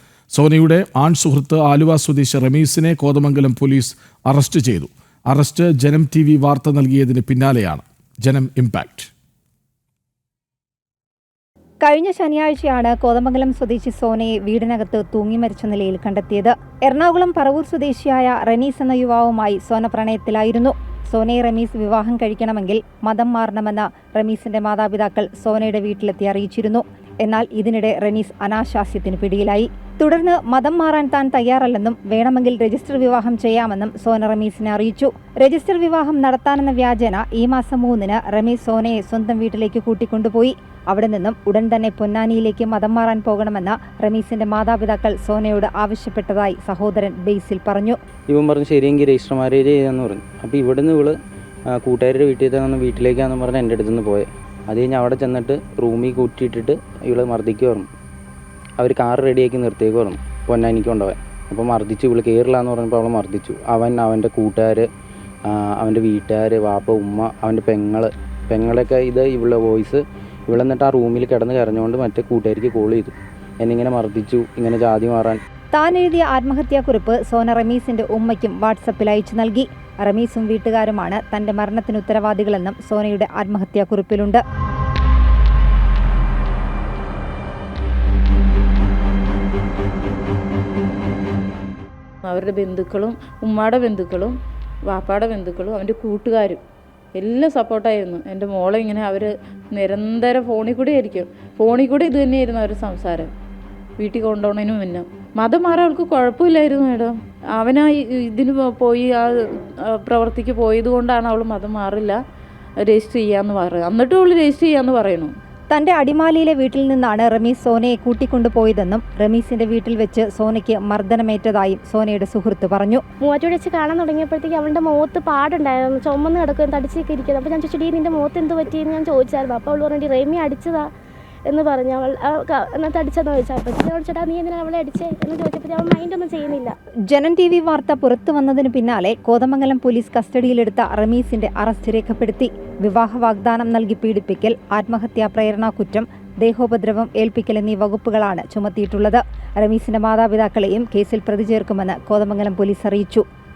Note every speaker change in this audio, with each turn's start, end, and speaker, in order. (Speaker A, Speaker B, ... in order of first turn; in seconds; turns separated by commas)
Speaker A: 0.3-9.1, Speaker B: 11.8-48.0, Speaker C: 48.3-51.2, Speaker C: 51.7-57.9, Speaker C: 58.8-64.9, Speaker C: 65.5-75.4, Speaker B: 75.7-84.4, Speaker D: 92.3-94.4, Speaker D: 94.9-96.6, Speaker D: 97.2-103.3, Speaker D: 104.0-109.3, Speaker D: 110.0-112.2, Speaker D: 112.9-115.3, Speaker B: 115.7-123.0, Speaker E: 123.2-130.9, Speaker E: 131.5-136.7, Speaker B: 137.1-153.2